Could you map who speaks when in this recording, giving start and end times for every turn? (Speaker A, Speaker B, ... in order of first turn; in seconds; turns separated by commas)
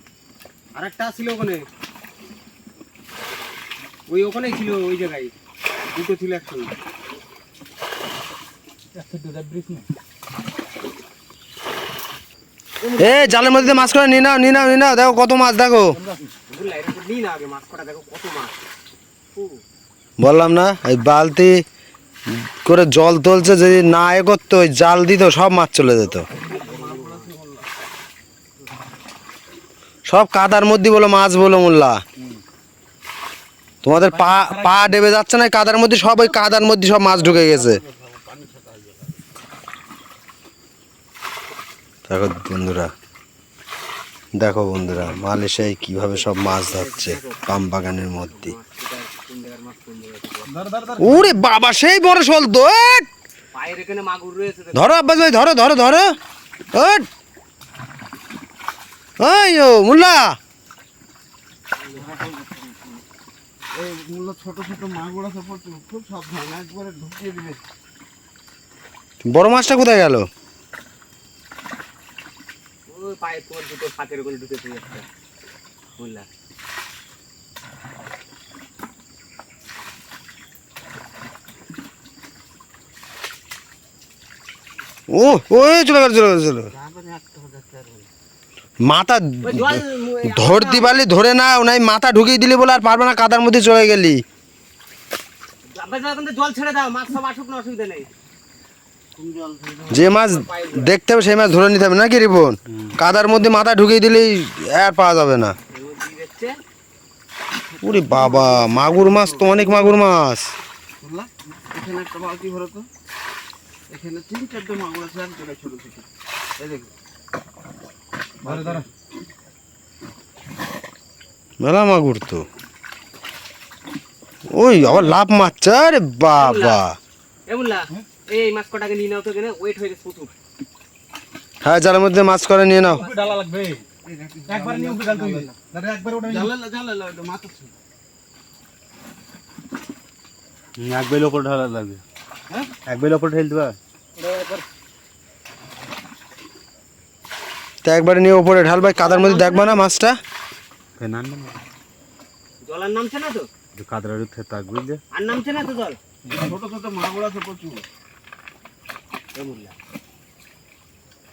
Speaker A: 0.7-1.7, Speaker A: 4.1-5.3, Speaker A: 5.9-6.7, Speaker B: 8.9-9.9, Speaker A: 12.8-14.6, Speaker C: 13.0-16.0, Speaker B: 14.7-15.0, Speaker B: 15.9-16.3, Speaker A: 16.5-18.6, Speaker A: 19.3-19.6, Speaker C: 20.2-21.5, Speaker C: 22.3-26.3, Speaker A: 26.6-27.4, Speaker D: 26.8-27.5, Speaker C: 30.1-32.0, Speaker C: 33.8-37.8, Speaker B: 34.0-34.9, Speaker C: 42.1-42.9, Speaker C: 44.4-48.6, Speaker A: 46.0-50.7, Speaker B: 50.5-51.4, Speaker C: 51.0-53.1, Speaker A: 53.5-54.9, Speaker C: 54.7-56.1, Speaker C: 56.8-57.1, Speaker C: 59.2-60.4, Speaker D: 63.8-67.6, Speaker C: 69.3-70.3, Speaker A: 72.9-75.0, Speaker A: 76.0-76.3, Speaker C: 85.1-86.7, Speaker D: 86.8-88.0, Speaker C: 88.9-94.2, Speaker A: 89.4-91.0, Speaker A: 95.7-98.1, Speaker D: 99.2-99.9, Speaker C: 99.9-105.5, Speaker A: 100.2-100.9, Speaker A: 105.7-106.6, Speaker C: 107.8-110.4, Speaker D: 111.0-112.8, Speaker D: 113.9-116.0, Speaker D: 116.6-116.9, Speaker B: 118.4-118.9, Speaker C: 121.6-122.5, Speaker C: 124.5-127.0, Speaker A: 126.4-126.8, Speaker A: 127.5-130.3, Speaker C: 131.6-133.1, Speaker B: 132.8-133.8, Speaker D: 134.1-135.5, Speaker B: 134.5-136.6, Speaker D: 136.3-137.7, Speaker B: 140.8-142.0, Speaker B: 142.8-144.7, Speaker C: 147.8-150.2, Speaker A: 148.9-149.9, Speaker B: 151.0-151.5, Speaker A: 152.6-153.5, Speaker C: 153.8-155.0, Speaker A: 155.1-156.0, Speaker D: 156.4-157.8, Speaker A: 159.3-159.8